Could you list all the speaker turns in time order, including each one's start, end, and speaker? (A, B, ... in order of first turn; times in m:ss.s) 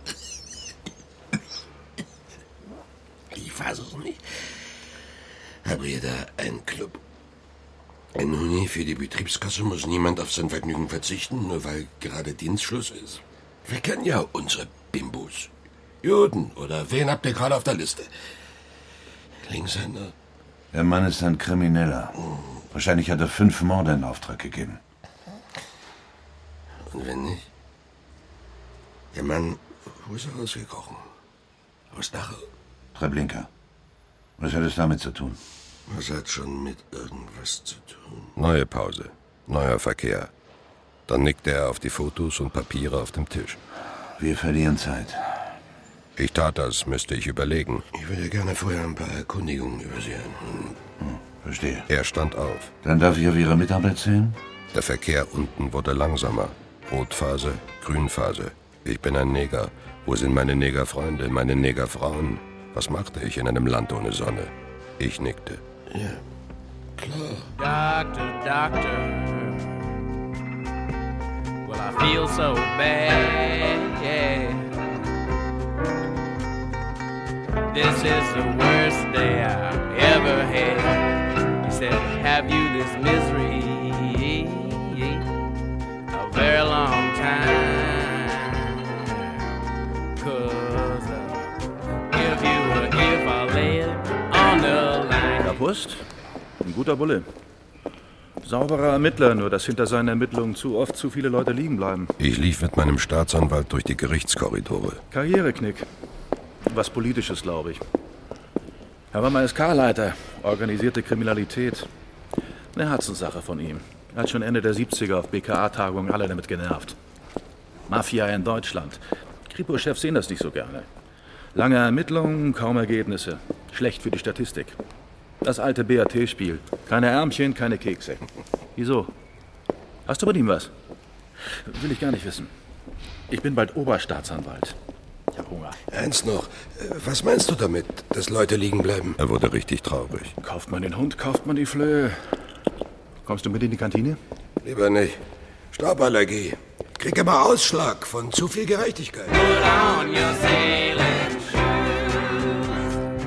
0:03.3-0:04.4 A
0:05.6-0:07.0 A
0:08.1-0:15.5 A
0:16.0-0:18.1 A
0:19.4-0:20.1 A
0:20.7-0:22.2 B
0:22.7-0:24.8 B
0:26.9-0:27.5 A
0:29.1-0:31.0 A
0:31.9-0:32.5 A
0:32.9-0:33.5 B
0:34.4-0:35.4 B
0:35.9-0:38.3 A
0:38.4-0:40.3 C
0:41.1-0:43.6 C
0:44.2-0:45.4 B
0:46.2-0:47.9 C
0:47.9-0:50.8 A
0:51.0-0:51.9 B
0:51.9-0:52.7 C
0:52.8-0:54.4 B
0:54.7-1:05.6 C
1:05.9-1:06.2 A
1:07.0-1:07.5 A
1:07.6-1:09.6 D
1:11.6-1:14.7 D
1:17.7-1:21.0 D
1:21.6-1:25.2 D
1:26.1-1:29.1 D
1:30.2-1:31.5 D
1:32.1-1:35.6 D
1:35.4-1:36.0 E
1:36.6-1:37.2 E
1:38.4-1:42.1 E
1:42.2-1:45.0 C
1:45.1-1:45.9 E
1:46.7-1:47.8 E
1:49.1-1:51.9 E
1:52.7-1:57.0 E
1:57.9-2:00.9 E
2:01.5-2:04.8 E
2:05.4-2:09.1 E
2:10.1-2:10.7 E
2:11.6-2:12.5 E
2:13.3-2:14.8 E
2:15.3-2:15.8 E
2:15.9-2:19.2 A
2:19.2-2:20.3 C
2:20.4-2:22.5 E
2:23.2-2:24.2 E
2:24.6-2:25.2 A
2:25.7-2:29.3 A
2:29.3-2:32.7 D